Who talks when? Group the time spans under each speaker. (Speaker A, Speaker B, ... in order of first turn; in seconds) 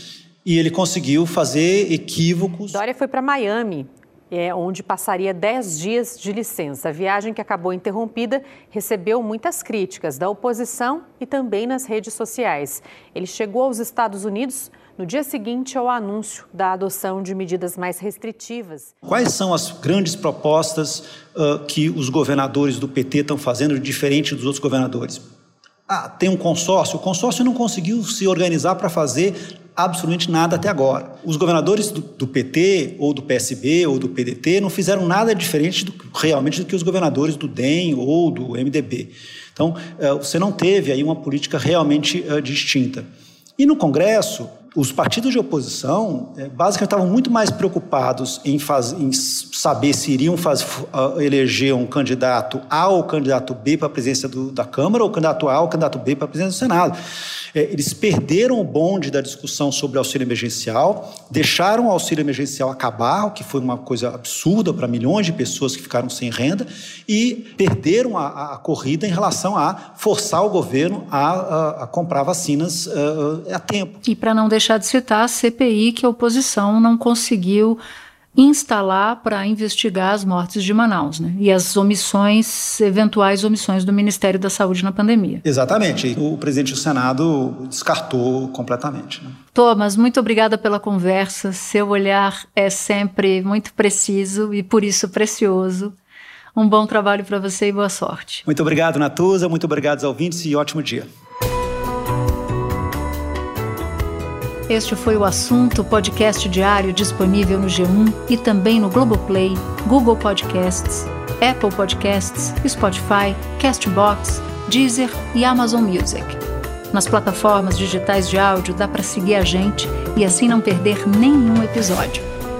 Speaker A: 0.4-2.8, 19.0-25.2, 25.9-57.0, 57.5-74.0, 85.4-89.3, 98.5-101.1
Speaker B: 2.7-18.9
Speaker C: 74.0-77.8, 78.3-85.4, 89.5-95.9, 96.5-98.4, 104.7-116.4, 116.9-122.2